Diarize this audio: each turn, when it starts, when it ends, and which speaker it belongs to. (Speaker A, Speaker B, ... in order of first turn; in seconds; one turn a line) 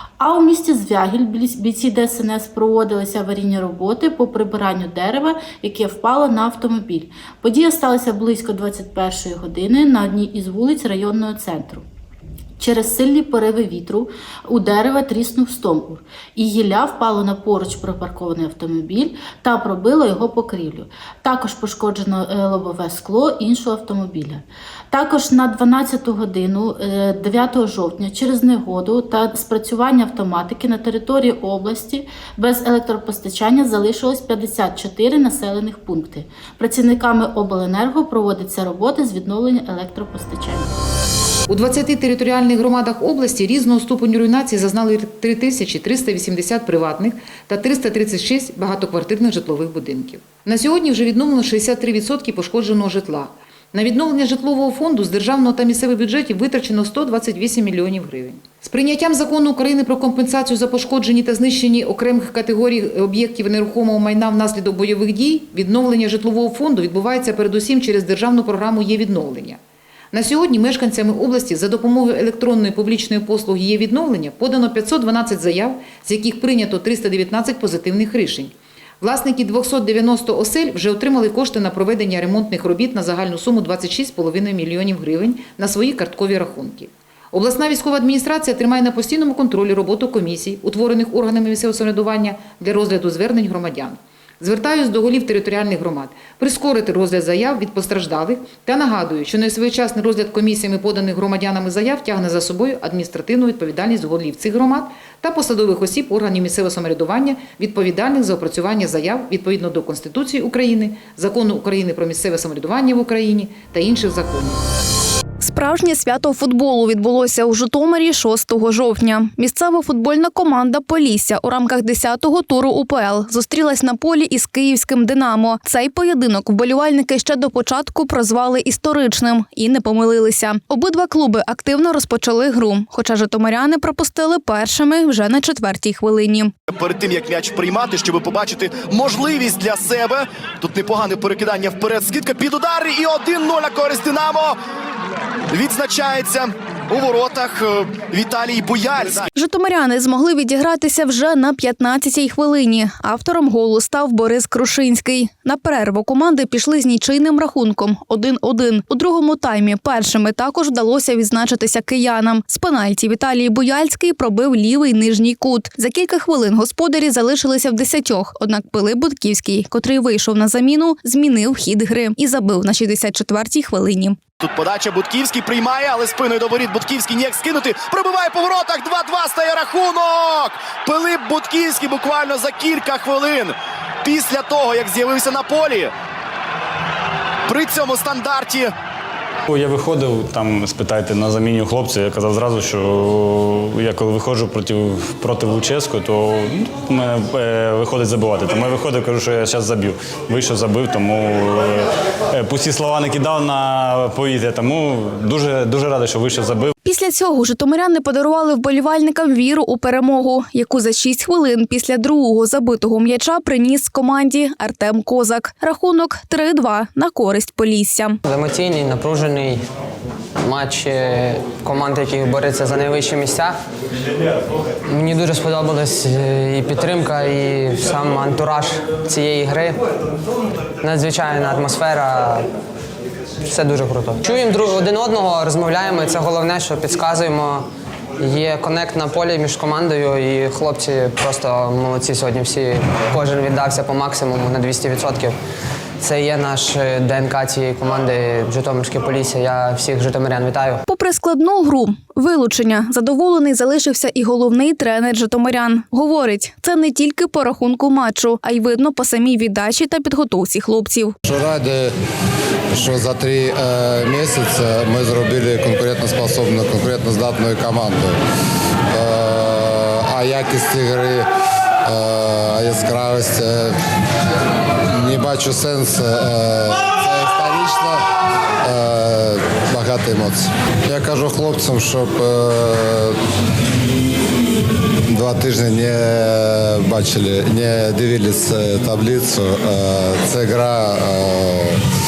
Speaker A: 0.2-11.8
Speaker A: 12.6-40.8
Speaker B: 41.5-69.6
Speaker B: 70.1-114.7
Speaker C: 115.4-136.5
Speaker D: 136.7-144.6
Speaker D: 145.5-149.3
Speaker C: 149.3-174.2
Speaker D: 174.4-185.9
Speaker D: 187.5-188.7
Speaker E: 189.5-206.7
Speaker C: 206.8-218.2
Speaker F: 218.2-219.6
Speaker F: 220.4-223.6
Speaker F: 224.9-229.8
Speaker F: 230.8-232.5
Speaker F: 233.4-237.7
Speaker F: 238.2-245.3
Speaker F: 246.0-250.8
Speaker C: 250.8-261.1
Speaker G: 261.2-261.9
Speaker G: 262.7-268.2
Speaker G: 268.9-271.2
Speaker G: 271.8-273.8
Speaker G: 274.9-278.0
Speaker G: 278.6-283.2
Speaker G: 285.1-291.8